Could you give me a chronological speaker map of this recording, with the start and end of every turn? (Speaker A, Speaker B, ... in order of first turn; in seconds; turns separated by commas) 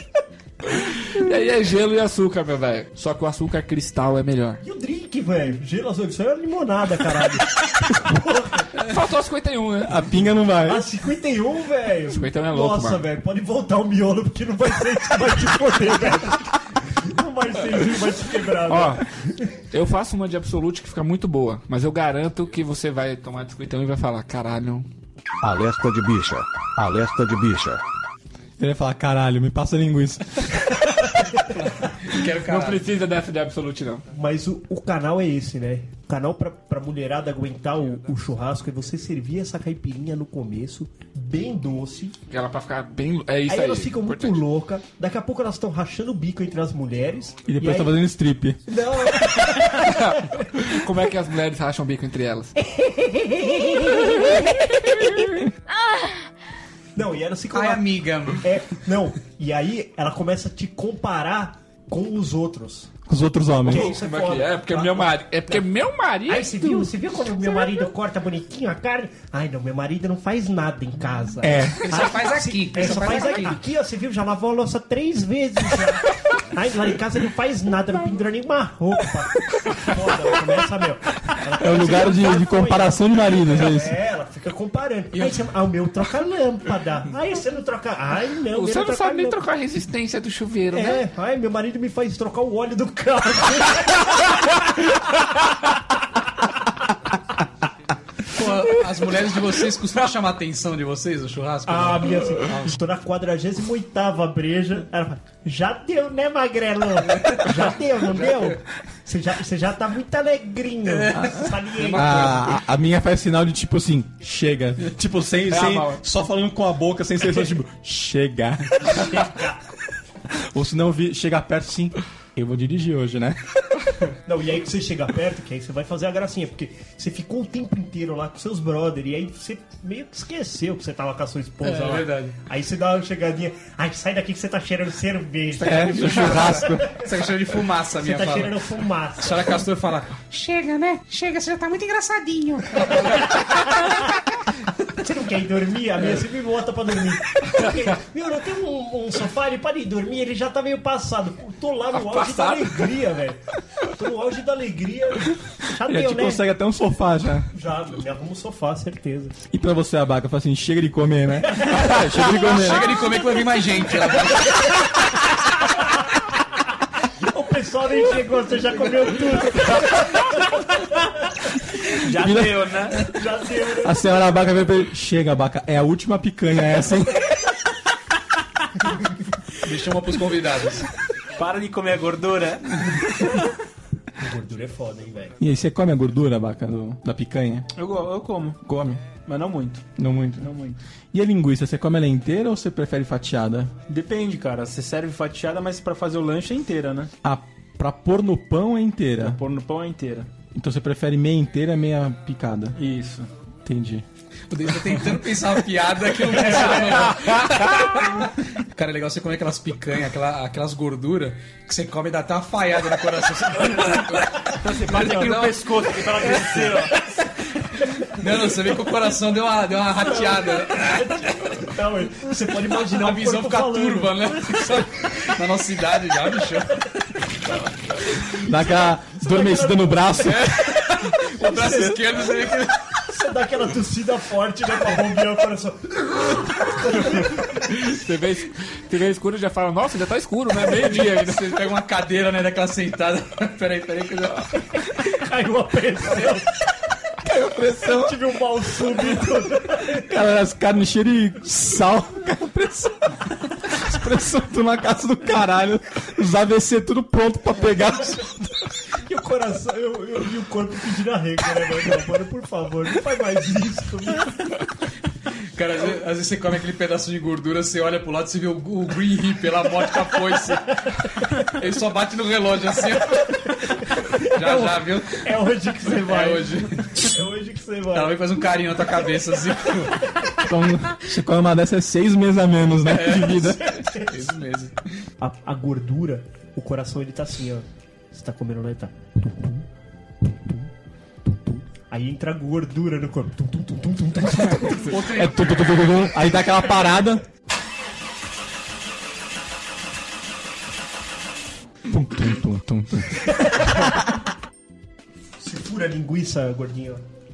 Speaker A: 0.7-4.6, Speaker B: 4.6-8.9, Speaker A: 8.8-10.2, Speaker C: 9.8-10.9, Speaker B: 10.6-19.5, Speaker A: 12.1-13.1, Speaker A: 18.7-19.1, Speaker A: 19.7-24.9, Speaker D: 25.4-27.8, Speaker C: 28.6-30.6, Speaker E: 31.6-32.8, Speaker A: 32.3-34.0, Speaker B: 34.1-42.1, Speaker A: 42.3-44.4, Speaker B: 43.5-48.0, Speaker C: 47.5-48.6, Speaker B: 48.7-50.0, Speaker A: 50.0-52.5, Speaker B: 52.7-54.4, Speaker B: 56.9-62.9, Speaker E: 57.5-58.5, Speaker C: 63.1-63.9, Speaker B: 63.6-65.6, Speaker A: 63.6-66.7, Speaker B: 66.3-89.4, Speaker C: 71.4-71.8, Speaker E: 71.8-73.6, Speaker C: 81.6-83.9, Speaker A: 88.5-91.0, Speaker B: 90.7-94.3, Speaker E: 98.3-102.1, Speaker B: 101.7-112.5, Speaker E: 110.9-112.4, Speaker C: 111.1-119.3, Speaker F: 115.6-115.8, Speaker B: 118.8-119.6, Speaker C: 120.3-123.4, Speaker B: 124.2-137.1, Speaker E: 131.6-132.4, Speaker C: 135.6-136.9, Speaker E: 135.6-138.5, Speaker B: 137.9-139.6, Speaker E: 139.2-143.1, Speaker B: 142.8-144.0, Speaker B: 144.9-156.4, Speaker A: 151.9-152.9, Speaker C: 155.9-157.5, Speaker B: 157.5-159.3, Speaker C: 159.5-163.1, Speaker E: 162.3-164.7, Speaker B: 167.3-170.8, Speaker F: 171.9-173.1, Speaker C: 172.1-172.8, Speaker B: 173.0-174.0, Speaker C: 173.8-177.3, Speaker E: 179.6-180.9, Speaker F: 181.4-182.8, Speaker B: 184.2-185.4, Speaker C: 185.4-187.7, Speaker F: 187.7-188.6, Speaker C: 188.6-189.0, Speaker F: 189.2-189.9, Speaker C: 189.9-190.5, Speaker F: 190.4-190.8, Speaker C: 191.1-193.7, Speaker F: 193.9-197.1, Speaker C: 197.2-199.4, Speaker F: 199.2-200.3, Speaker C: 200.5-202.8, Speaker F: 202.8-203.3, Speaker C: 203.6-204.1, Speaker E: 204.5-216.6, Speaker F: 206.3-207.1, Speaker F: 214.6-217.1, Speaker B: 216.2-216.8, Speaker E: 218.0-221.2, Speaker B: 220.0-224.8, Speaker E: 222.7-226.9, Speaker B: 228.3-230.6, Speaker C: 228.4-230.8, Speaker E: 230.2-232.8, Speaker B: 231.4-232.5, Speaker C: 231.6-231.8, Speaker B: 233.1-237.6, Speaker A: 237.6-241.7, Speaker E: 241.0-244.5, Speaker B: 245.1-246.5, Speaker A: 247.2-248.2, Speaker B: 247.8-250.1, Speaker C: 250.0-258.4, Speaker B: 259.1-264.6, Speaker E: 265.6-270.8, Speaker E: 271.4-275.2, Speaker B: 274.1-278.6, Speaker E: 275.9-277.1, Speaker E: 277.9-280.1, Speaker C: 280.4-283.7, Speaker E: 282.9-284.7, Speaker B: 283.5-284.2, Speaker B: 285.2-289.6, Speaker B: 290.2-290.6, Speaker B: 291.2-295.2, Speaker E: 294.9-295.5, Speaker C: 295.0-297.2, Speaker C: 301.9-303.3, Speaker B: 303.4-303.7, Speaker B: 305.4-307.0